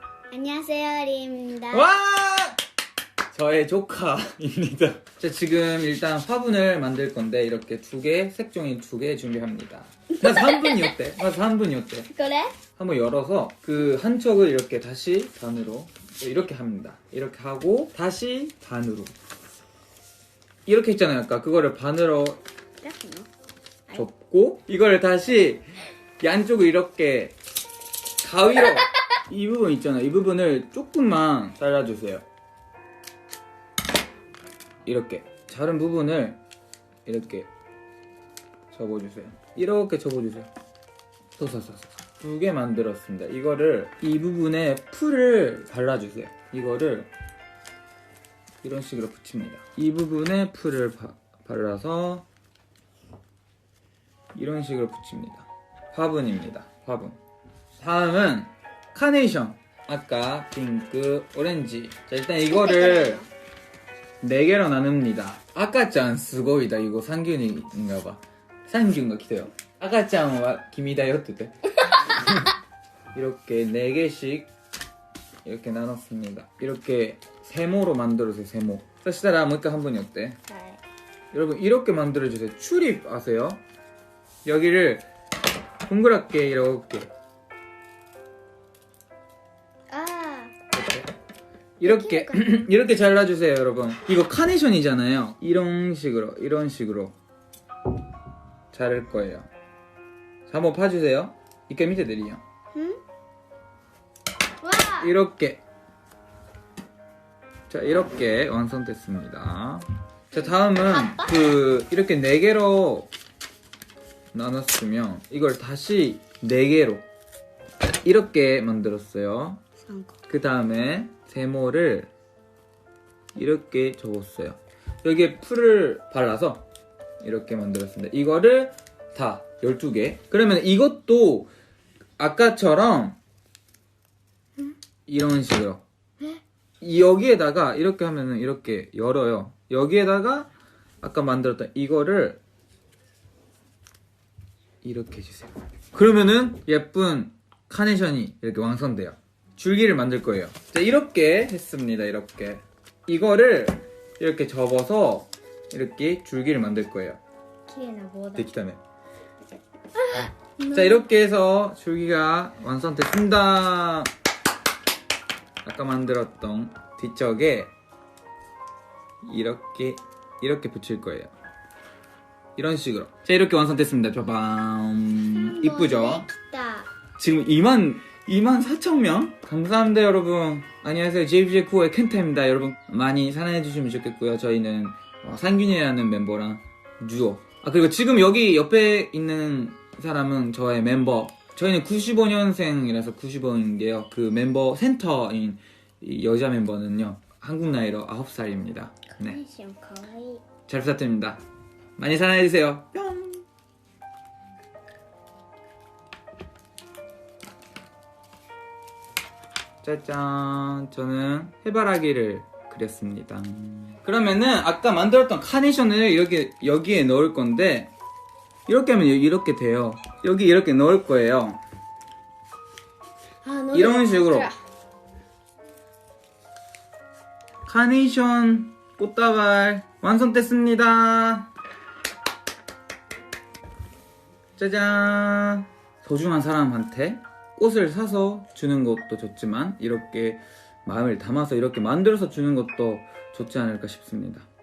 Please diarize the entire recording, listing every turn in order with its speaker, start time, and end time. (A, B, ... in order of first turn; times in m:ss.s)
0:00.3-0:01.9 A
0:01.7-0:02.6 B
0:03.3-0:12.1 B
0:12.1-0:12.6 A
0:12.8-0:19.1 B
0:20.7-0:22.4 B
0:22.8-0:23.3 A
0:23.9-0:25.6 B
0:26.2-0:27.4 B
0:28.2-0:32.2 B
0:34.8-0:36.4 B
0:37.1-0:37.5 B
0:38.7-0:40.5 B
0:41.4-0:47.1 B
0:48.6-0:52.2 B
0:54.4-0:57.2 B
0:57.8-1:03.2 B
1:02.5-1:03.3 A
1:04.2-1:12.5 B
1:13.1-1:14.5 B
1:15.4-1:20.4 B
1:20.5-1:20.8 A
1:21.3-1:23.6 B
1:24.4-1:25.0 B
1:25.9-1:27.1 B
1:29.9-1:30.6 A
1:30.7-1:31.1 B
1:31.8-1:37.2 B
1:31.8-1:32.7 A
1:38.7-1:39.5 B
1:40.5-1:42.4 B
1:42.7-1:43.0 A
1:44.6-1:45.1 A
1:45.0-1:45.6 B
1:47.7-1:53.1 B
1:50.3-1:51.4 A
1:54.3-1:57.0 B
1:58.0-1:59.6 B
1:59.8-2:00.1 A
2:00.3-2:02.1 B
2:03.4-2:06.6 B
2:07.2-2:11.5 B
2:12.2-2:13.2 B
2:15.1-2:15.8 B
2:16.8-2:20.5 B
2:21.0-2:22.4 B
2:24.8-2:37.2 B
2:37.7-2:38.5 A
2:38.3-2:38.8 B
2:40.0-2:41.1 A
2:40.7-2:44.1 B
2:45.6-2:47.7 B
2:49.2-2:51.3 B
2:52.6-2:56.3 B
2:55.3-2:56.9 A
2:57.2-3:19.4 B
3:19.2-3:20.4 A
3:20.7-3:21.4 B
3:22.0-3:23.4 B
3:29.8-3:37.9 B
3:38.7-3:41.6 B
3:43.4-3:44.6 A
3:43.7-3:44.5 B
3:47.7-3:51.5 B
3:54.6-4:04.5 B